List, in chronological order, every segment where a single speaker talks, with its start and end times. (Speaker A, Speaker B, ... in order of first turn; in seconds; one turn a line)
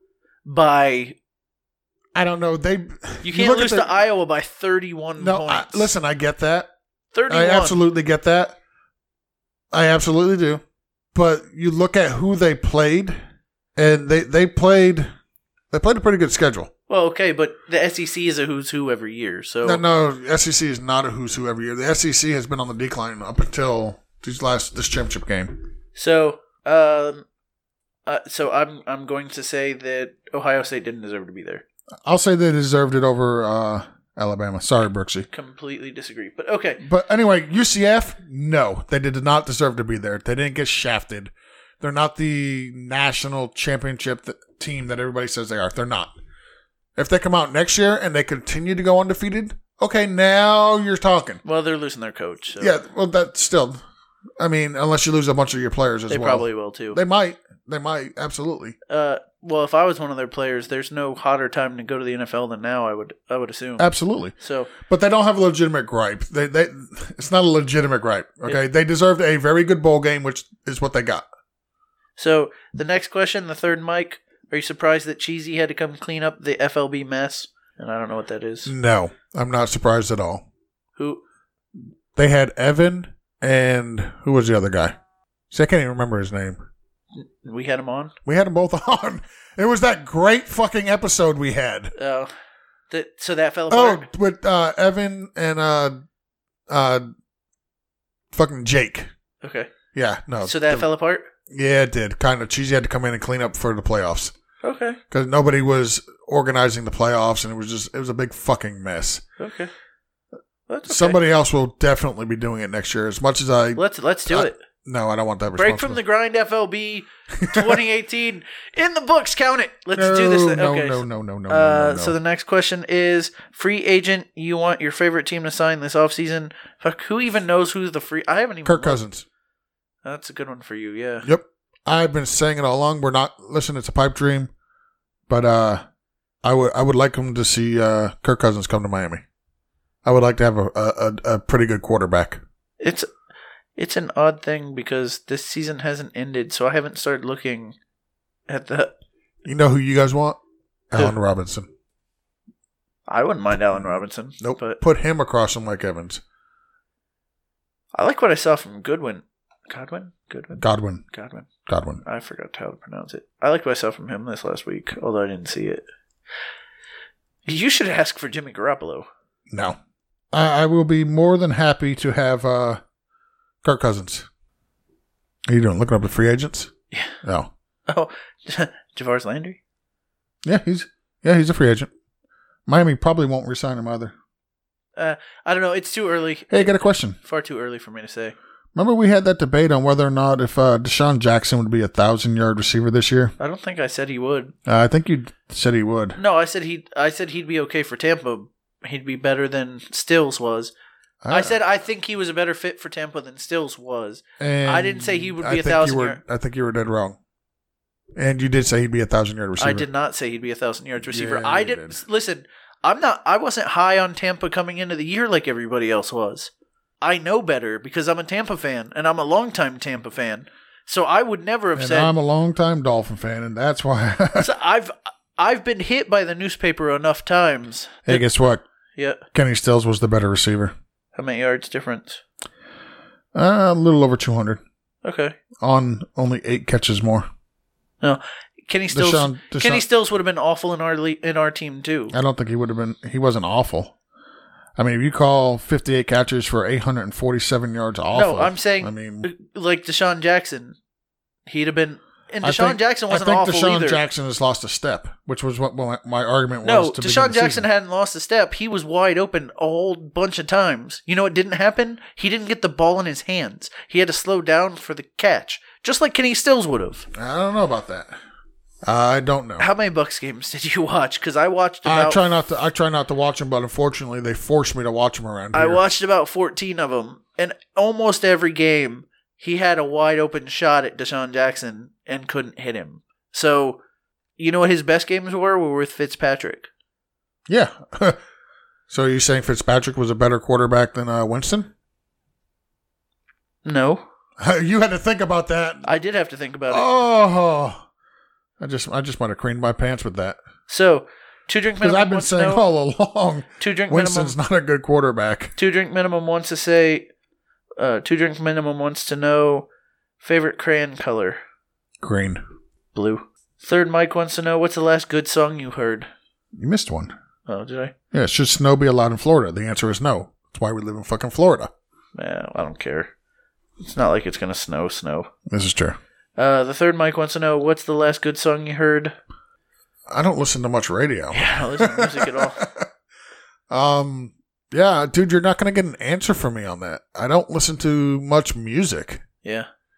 Speaker A: 0.5-1.2
Speaker B: 2.1-4.0
Speaker A: 3.2-5.9
Speaker B: 5.2-6.7
Speaker A: 7.1-7.8
Speaker B: 7.3-8.6
Speaker B: 9.7-10.6
Speaker B: 11.1-13.2
Speaker B: 13.8-15.1
Speaker B: 15.7-16.7
Speaker A: 16.9-19.8
Speaker B: 19.6-25.6
Speaker A: 26.0-27.2
Speaker A: 28.1-31.6
Speaker B: 32.0-35.3
Speaker A: 35.3-36.8
Speaker B: 36.8-46.1
Speaker B: 47.0-51.4
Speaker A: 51.5-52.7
Speaker B: 52.6-53.8
Speaker B: 54.4-58.8
Speaker A: 56.1-57.0
Speaker A: 58.9-64.7
Speaker B: 63.8-71.2
Speaker A: 72.2-78.7
Speaker B: 78.7-80.5
Speaker A: 81.0-81.2
Speaker B: 82.2-85.0
Speaker B: 85.5-86.6
Speaker A: 87.2-88.1
Speaker B: 88.3-91.9
Speaker A: 92.0-92.3
Speaker A: 92.9-94.1
Speaker B: 93.7-96.0
Speaker B: 96.7-97.1
Speaker B: 98.3-99.1
Speaker A: 99.4-99.7
Speaker B: 99.9-100.9
Speaker A: 100.4-101.3
Speaker B: 101.5-104.3
Speaker A: 104.6-105.0
Speaker B: 105.1-109.2
Speaker A: 109.4-109.7
Speaker A: 110.7-111.2
Speaker B: 110.9-116.0
Speaker A: 113.8-114.6
Speaker A: 115.6-129.0
Speaker B: 117.4-117.8
Speaker B: 120.0-122.2
Speaker B: 128.7-129.2
Speaker A: 130.0-131.3
Speaker B: 131.2-134.5
Speaker B: 135.3-135.8
Speaker B: 136.4-139.2
Speaker B: 140.0-142.4
Speaker A: 142.8-143.1
Speaker A: 143.8-147.8
Speaker A: 148.5-148.9
Speaker B: 149.4-150.4
Speaker B: 150.9-151.7
Speaker A: 153.1-154.8
Speaker B: 154.4-156.2
Speaker A: 157.9-161.5
Speaker B: 160.6-161.0
Speaker B: 161.7-162.0
Speaker A: 162.0-165.8
Speaker A: 167.5-169.1
Speaker B: 169.5-169.8
Speaker B: 170.3-172.8
Speaker B: 173.6-174.3
Speaker B: 175.5-176.7
Speaker B: 177.2-177.5
Speaker A: 177.9-179.6
Speaker B: 180.4-181.9
Speaker B: 182.7-184.1
Speaker A: 185.0-188.3
Speaker B: 186.5-187.2
Speaker B: 188.8-193.3
Speaker A: 193.4-194.6
Speaker B: 194.7-196.2
Speaker A: 196.2-200.7
Speaker B: 201.2-201.6
Speaker A: 201.3-206.2
Speaker B: 204.4-207.2
Speaker B: 208.2-209.9
Speaker A: 209.6-216.5
Speaker B: 211.0-212.0
Speaker A: 217.0-222.1
Speaker B: 221.8-224.5
Speaker A: 224.4-228.3
Speaker B: 228.1-228.6
Speaker A: 229.0-229.2
Speaker B: 229.3-230.7
Speaker A: 231.2-232.2
Speaker B: 233.3-234.6
Speaker A: 235.0-235.4
Speaker B: 235.6-237.3
Speaker A: 238.0-242.2
Speaker B: 238.9-239.8
Speaker B: 242.1-243.9
Speaker B: 244.8-249.3
Speaker A: 248.1-250.8
Speaker A: 251.5-254.0
Speaker B: 252.4-257.7
Speaker A: 256.6-267.1
Speaker B: 267.1-268.2
Speaker B: 268.8-269.7
Speaker A: 269.6-272.2
Speaker B: 271.9-275.8
Speaker A: 275.5-283.8
Speaker A: 284.4-286.7
Speaker B: 287.5-288.2
Speaker B: 288.9-291.7
Speaker A: 293.6-294.0
Speaker B: 294.4-295.9
Speaker A: 295.9-296.9
Speaker B: 296.7-297.9
Speaker B: 298.6-300.4
Speaker A: 300.7-302.6
Speaker B: 301.8-305.6
Speaker A: 303.6-304.4
Speaker A: 305.6-307.1
Speaker A: 307.8-309.7
Speaker A: 310.2-311.4
Speaker B: 312.0-312.4
Speaker A: 312.9-316.1
Speaker B: 316.6-317.1
Speaker A: 317.5-317.9
Speaker B: 318.1-321.7
Speaker A: 322.2-323.1
Speaker A: 323.8-325.3
Speaker B: 325.5-326.0
Speaker A: 326.4-329.2
Speaker B: 330.1-332.9
Speaker A: 331.3-332.6
Speaker B: 333.7-339.2
Speaker A: 339.4-339.7